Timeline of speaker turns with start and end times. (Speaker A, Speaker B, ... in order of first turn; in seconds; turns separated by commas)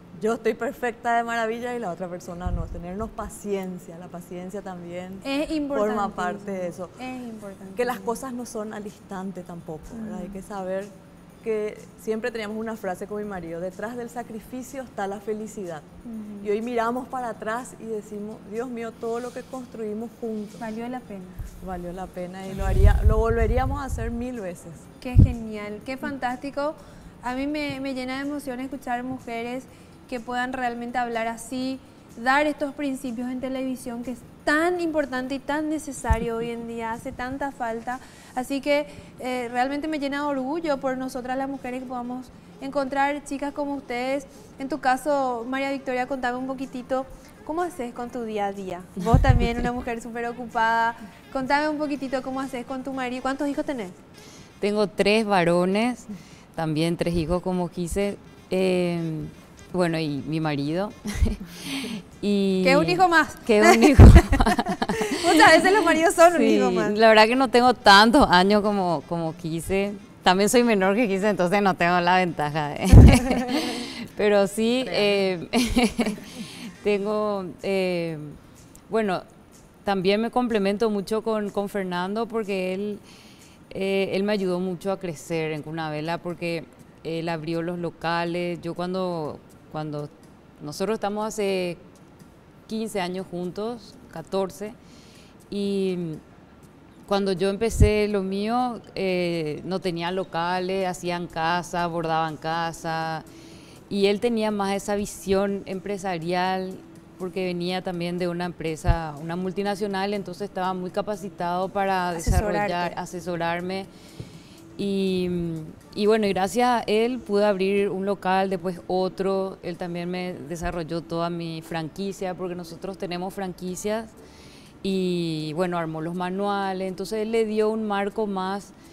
Speaker A: 0.1-6.9, Speaker B: 5.2-8.2, Speaker A: 7.8-15.8, Speaker B: 9.9-10.4, Speaker B: 16.0-16.5, Speaker A: 16.4-20.6, Speaker B: 20.6-21.4, Speaker A: 21.6-24.9, Speaker B: 25.0-54.0, Speaker C: 54.6-78.4, Speaker B: 62.6-67.0, Speaker A: 74.8-75.2, Speaker C: 78.9-79.2, Speaker C: 79.8-83.0, Speaker C: 83.7-91.8, Speaker C: 92.7-94.7, Speaker C: 95.5-96.2, Speaker C: 97.1-103.2, Speaker C: 103.9-113.9, Speaker B: 112.2-112.9, Speaker C: 114.8-124.1, Speaker C: 124.8-128.7